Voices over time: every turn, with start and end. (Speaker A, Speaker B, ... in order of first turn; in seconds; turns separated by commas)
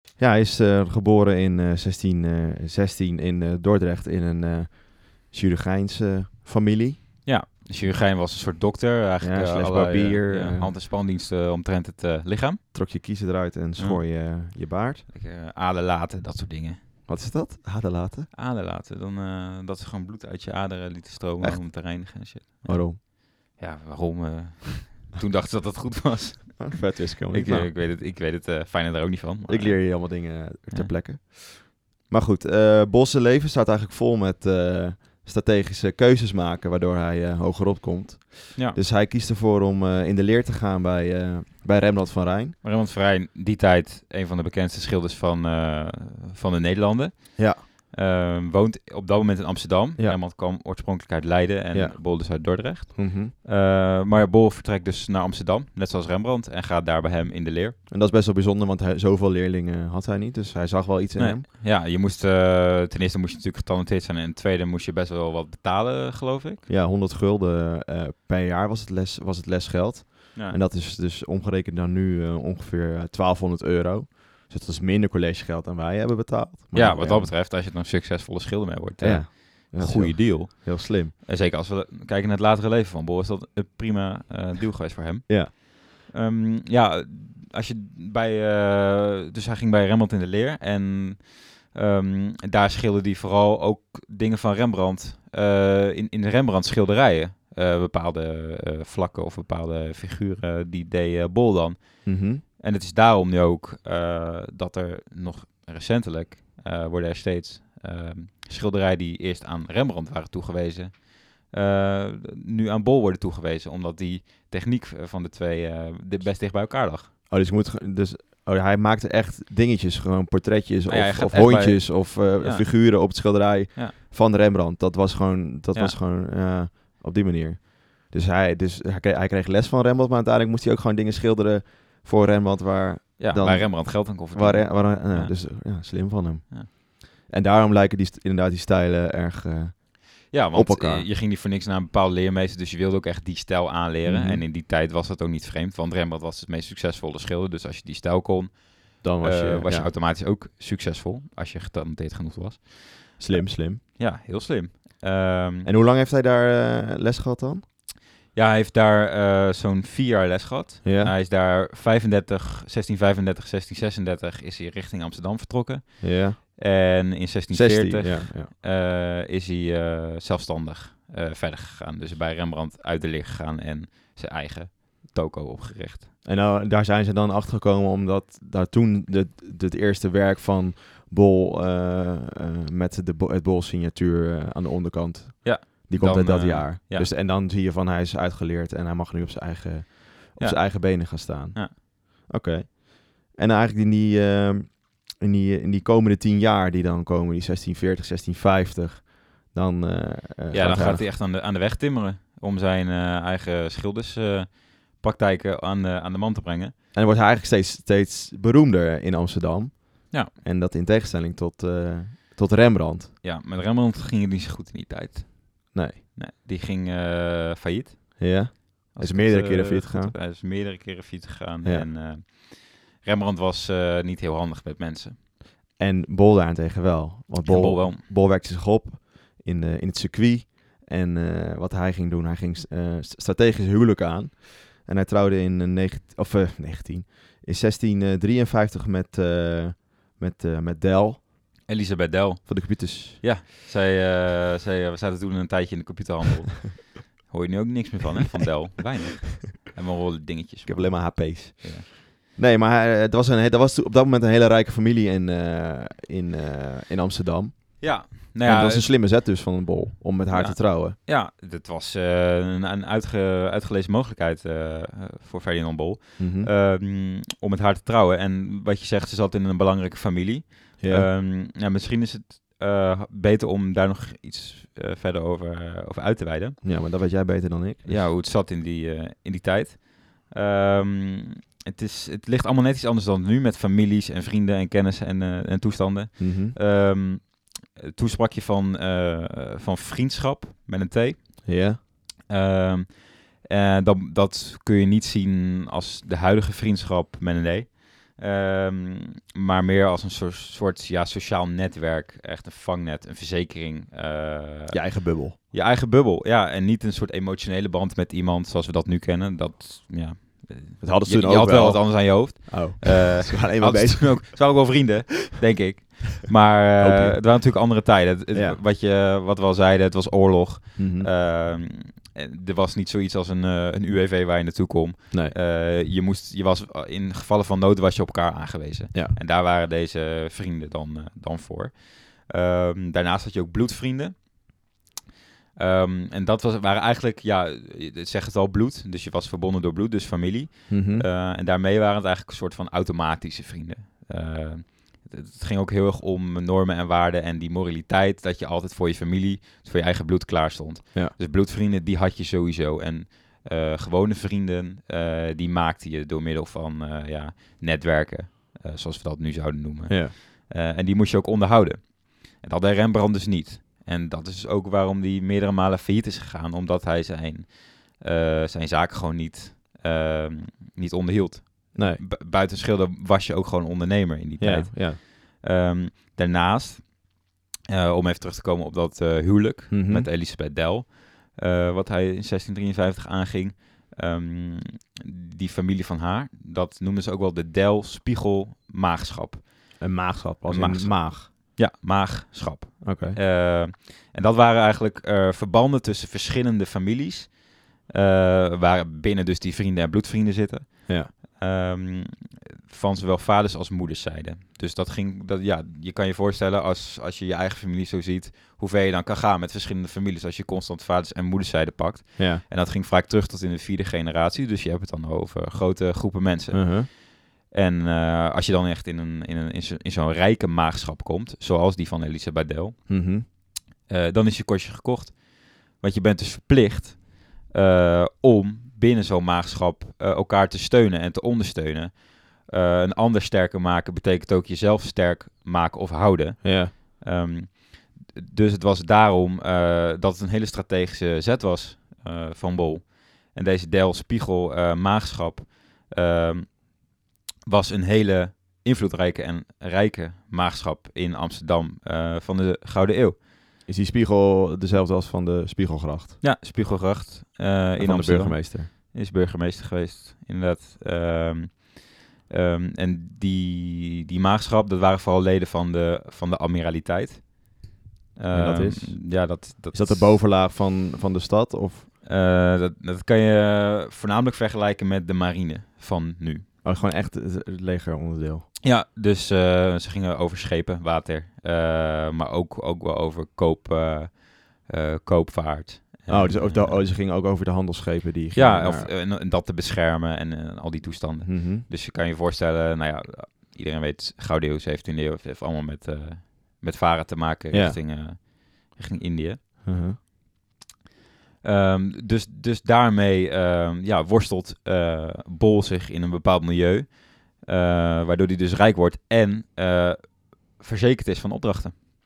Speaker A: 0.2-7.0, Speaker B: 7.2-12.6, Speaker A: 9.2-10.7, Speaker A: 12.7-15.1, Speaker B: 15.1-16.8, Speaker A: 17.1-18.3, Speaker B: 18.3-30.9, Speaker A: 21.4-23.0, Speaker A: 26.6-27.7, Speaker A: 29.5-42.6, Speaker B: 42.6-57.8, Speaker A: 51.7-53.3, Speaker A: 57.9-61.5, Speaker B: 61.2-66.6, Speaker A: 66.7-77.3, Speaker B: 76.7-117.1, Speaker A: 79.0-81.1, Speaker A: 85.3-85.5, Speaker A: 102.0-102.4, Speaker A: 117.3-141.1, Speaker B: 120.9-123.2, Speaker B: 133.2-135.8, Speaker B: 140.3-153.2, Speaker A: 144.1-144.4, Speaker A: 149.0-149.9, Speaker A: 153.2-153.8, Speaker B: 154.0-155.7, Speaker A: 155.7-157.7, Speaker B: 158.3-176.1, Speaker A: 160.8-161.1, Speaker A: 166.0-166.4, Speaker A: 167.5-168.5, Speaker A: 176.2-201.1, Speaker B: 185.4-187.1, Speaker B: 190.4-191.7, Speaker B: 200.5-206.7, Speaker A: 206.9-213.1, Speaker B: 213.2-225.2, Speaker A: 215.7-216.0, Speaker A: 218.2-220.2, Speaker A: 225.8-241.3, Speaker B: 227.4-228.0, Speaker B: 241.7-251.9, Speaker A: 242.5-243.2, Speaker A: 250.7-261.0, Speaker B: 257.8-258.9, Speaker B: 260.3-276.6, Speaker A: 266.2-266.5, Speaker A: 270.8-271.1, Speaker A: 276.6-278.1, Speaker B: 277.9-291.6, Speaker A: 286.2-286.6, Speaker A: 291.4-291.8, Speaker B: 292.3-334.6, Speaker A: 304.7-305.4, Speaker A: 310.8-314.8, Speaker A: 316.8-317.4, Speaker A: 318.3-318.6, Speaker A: 320.8-321.1, Speaker B: 335.6-389.8, Speaker A: 340.7-341.1, Speaker A: 359.9-360.1, Speaker A: 371.8-372.0, Speaker A: 374.4-375.0, Speaker A: 379.7-380.1, Speaker A: 389.8-391.3, Speaker B: 390.5-423.0, Speaker A: 392.8-393.2, Speaker A: 412.2-412.4, Speaker A: 416.5-416.9, Speaker A: 422.9-423.3, Speaker B: 423.9-446.9, Speaker A: 436.4-436.7, Speaker B: 447.4-453.2, Speaker A: 453.7-456.2, Speaker B: 456.2-467.6, Speaker A: 457.8-458.7, Speaker B: 468.2-470.2, Speaker A: 468.3-471.9, Speaker B: 472.0-476.5, Speaker A: 476.6-478.5, Speaker B: 478.6-486.9, Speaker A: 486.1-488.9, Speaker B: 488.4-499.6, Speaker A: 491.2-491.6, Speaker A: 497.5-497.8, Speaker A: 499.6-500.0, Speaker B: 501.4-511.7